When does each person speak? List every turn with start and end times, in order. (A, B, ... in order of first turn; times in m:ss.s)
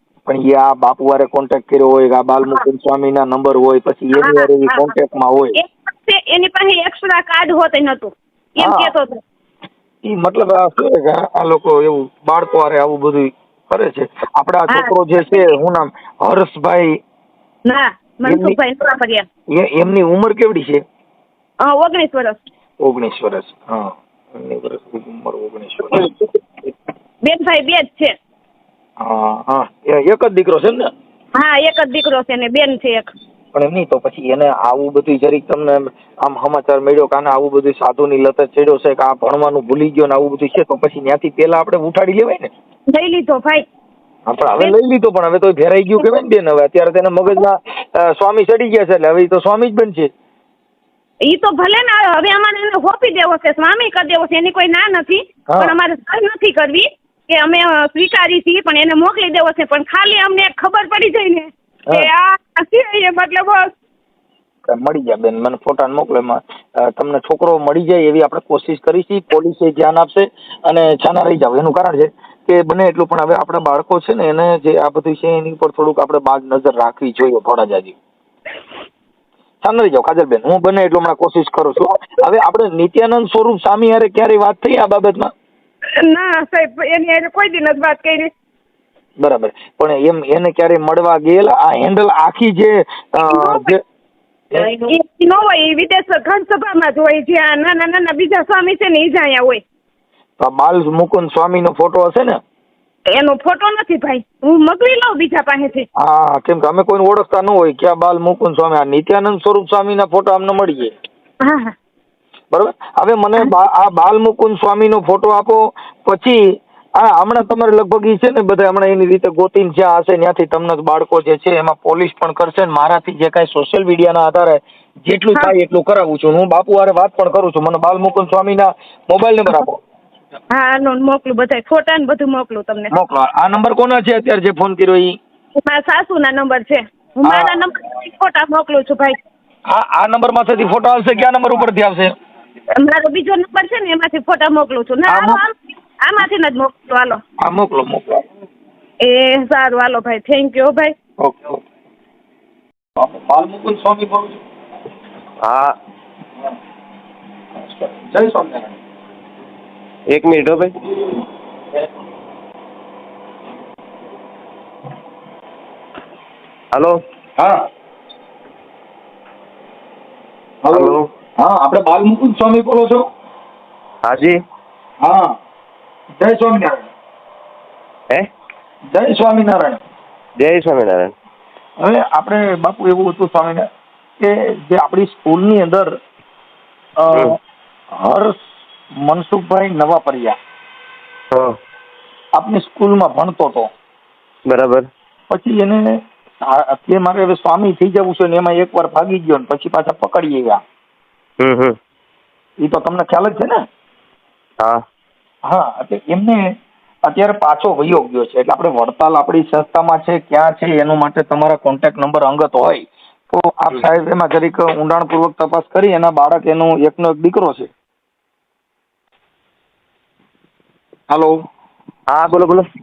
0:00.3-0:05.6 A
0:04.2-0:04.9 B
0:05.6-0:09.2 B
0:08.6-0:08.9 A
0:10.0-0:16.9 A
0:14.7-0:15.5 B
0:17.6-0:19.2 B
0:18.2-0:18.6 A
0:19.5-0:20.8 A
0:21.6-0:22.4 B
0:22.8-0:26.1 A
0:25.9-0:26.2 B
0:27.2-0:28.1 B
0:29.0-0:30.9 A
0:31.4-0:33.1 B
0:33.5-0:42.5 A
0:42.9-0:43.6 B
0:44.2-0:50.1 A
0:51.2-1:03.7 B
0:55.5-0:55.7 A
1:04.7-1:18.0 A
1:19.6-1:25.3 A
1:26.0-1:28.3 B
1:29.2-1:33.8 A
1:33.2-1:33.7 B
1:34.7-1:39.6 B
1:40.4-1:42.4 A
1:43.1-1:45.8 B
1:46.0-1:50.9 A
1:51.4-1:51.7 B
1:52.5-1:56.4 A
1:57.0-2:09.8 A
2:10.5-2:12.9 B
2:12.9-2:15.1 A
2:15.6-2:19.2 B
2:17.2-2:17.6 A
2:19.7-2:22.1 A
2:22.8-2:27.2 B
2:25.1-2:25.4 A
2:27.4-2:28.2 A
2:29.0-2:30.9 B
2:31.2-2:31.6 A
2:33.0-2:34.4 A
2:35.4-2:35.7 C
2:37.6-2:38.8 A
2:40.1-2:40.7 C
2:50.6-2:53.0 A
2:50.7-2:51.0 C
2:54.0-2:54.4 C
2:55.0-2:55.4 A
2:56.2-2:56.9 A
2:58.9-2:59.8 A
3:00.4-3:01.1 C
3:01.8-3:03.7 A
3:04.2-3:05.9 A
3:07.0-3:07.4 A
3:07.1-3:07.4 C
3:07.9-3:08.3 A
3:09.0-3:10.4 A
3:12.4-3:13.7 A
3:14.5-3:14.8 C
3:15.3-3:15.8 A
3:16.4-3:20.6 A
3:21.4-3:21.7 C
3:22.6-3:23.6 A
3:25.5-3:26.4 A
3:27.0-3:37.7 A
3:41.1-3:41.3 A
3:42.1-3:42.6 C